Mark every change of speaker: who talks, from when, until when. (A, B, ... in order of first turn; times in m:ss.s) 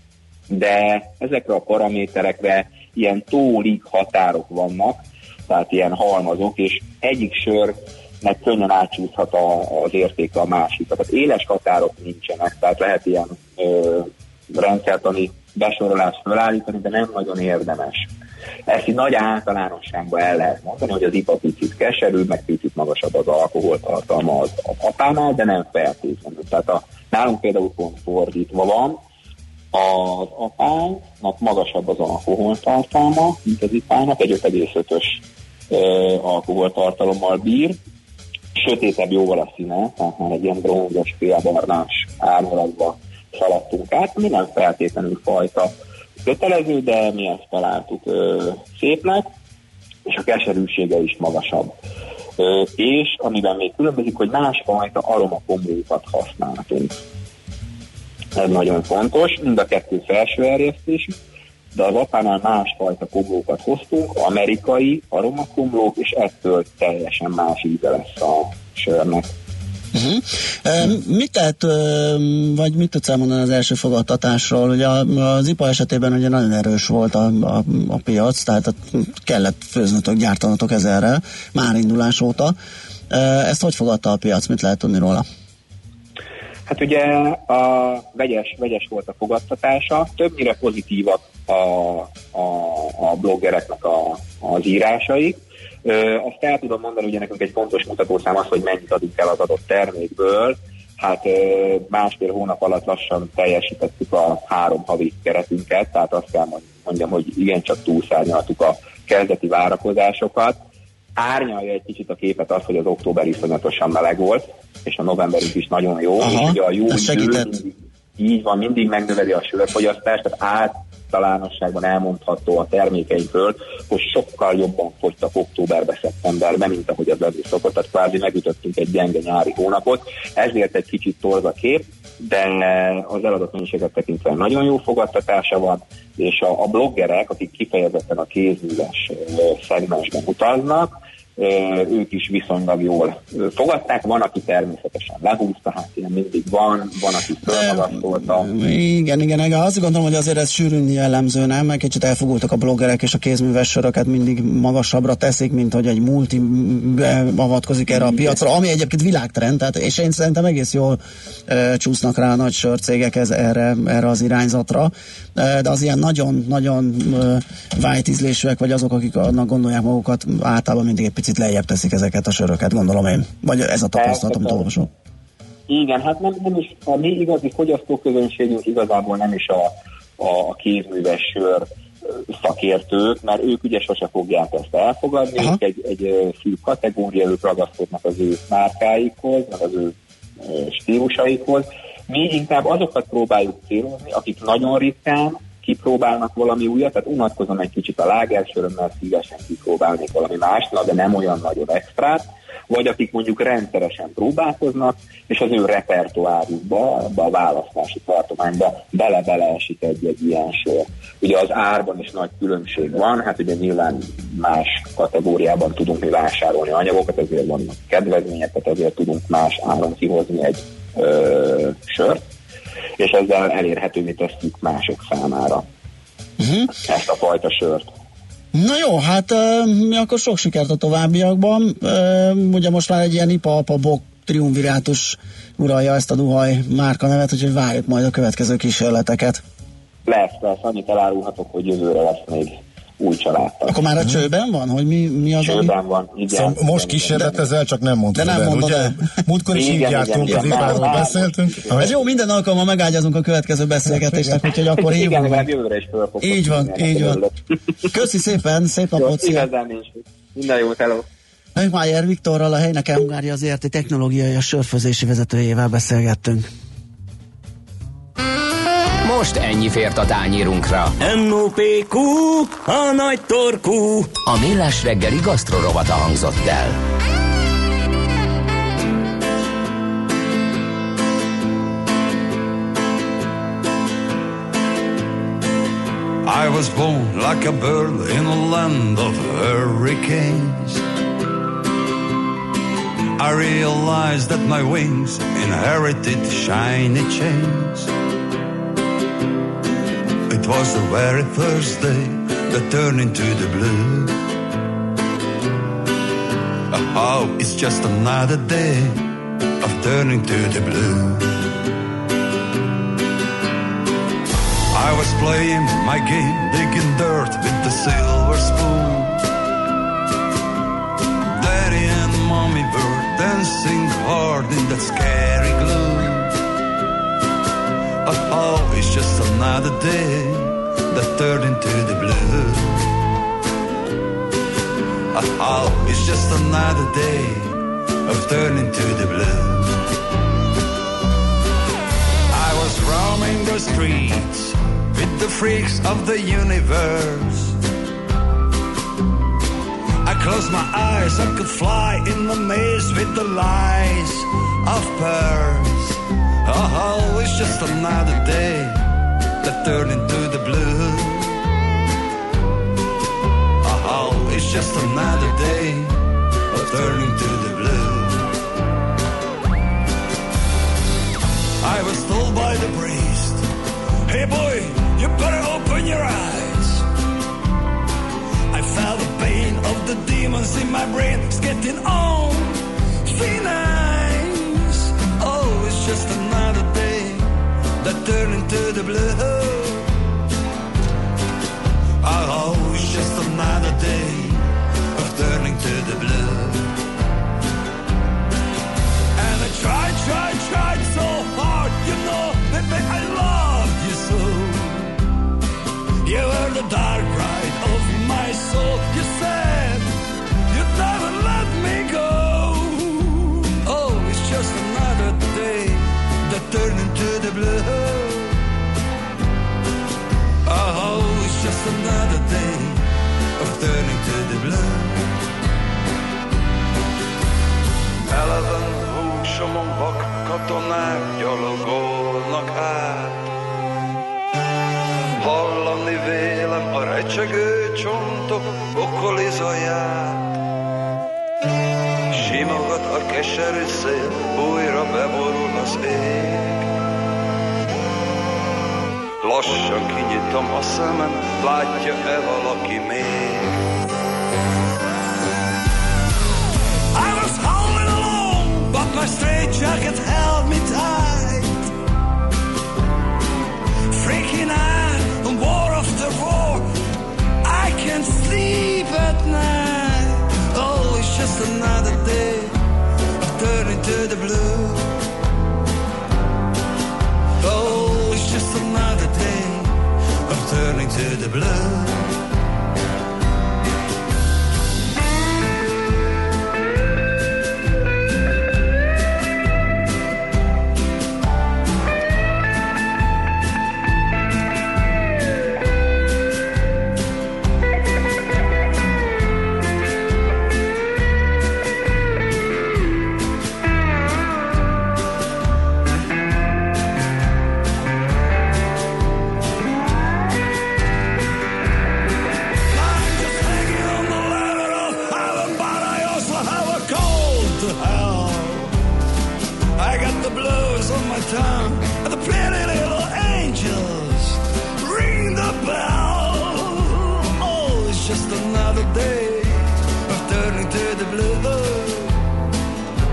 0:00.5-0:18.1 A
0:18.7-0:29.0 A
0:29.7-0:37.8 A
0:38.6-0:45.7 A
0:46.2-0:49.3 A
0:50.1-0:51.7 A
0:52.4-0:57.0 A
0:58.4-1:01.2 A
1:01.7-1:09.3 A
1:09.9-1:22.6 B
1:23.1-1:25.2 B
1:26.7-1:50.6 A
1:51.2-2:28.5 A
1:56.2-1:57.6 B
2:27.5-2:54.9 B
2:54.0-2:54.7 A
2:55.7-3:01.7 A
3:02.3-3:42.2 A
3:43.0-3:45.6 A
3:46.4-3:46.7 B
3:46.9-3:47.9 A
3:48.5-3:59.4 B
4:00.1-4:03.8 A
4:03.6-4:05.8 B
4:05.4-4:07.5 A
4:06.3-4:11.9 C
4:08.2-4:09.1 B
4:09.5-4:12.0 A
4:10.3-4:11.0 B
4:11.8-4:15.5 B
4:14.5-4:17.4 A
4:16.2-4:17.2 B
4:17.9-4:19.5 B
4:19.0-4:21.1 A
4:21.6-4:26.4 B
4:29.0-4:31.0 D
4:31.0-4:34.2 E
4:34.3-4:36.8 D
4:46.2-4:50.8 F
4:53.2-4:57.9 F
5:00.3-5:04.2 F
5:06.7-5:09.1 F
5:09.6-5:11.4 F
5:14.7-5:19.2 F
5:21.3-5:26.3 F
5:28.0-5:32.9 F
5:35.1-5:39.8 F
5:42.3-5:47.6 F
5:50.0-5:58.8 F
5:59.4-6:01.4 F
6:03.6-6:06.0 F
6:06.5-6:08.3 F
6:11.6-6:13.5 F
6:14.1-6:16.9 F
6:18.5-6:29.9 F
6:32.0-6:36.8 F
6:39.2-6:45.0 F
6:46.0-6:49.9 F
6:50.5-6:58.4 F
7:00.5-7:05.1 F
7:08.1-7:13.2 F
7:15.2-7:20.2 F
7:22.1-7:26.7 F
7:29.2-7:33.6 F
7:36.9-7:41.7 F
7:43.9-7:46.7 F
7:47.4-7:52.6 F
7:53.2-7:55.0 F
7:57.4-8:02.2 F
8:32.7-8:38.8 F
8:39.8-8:52.2 F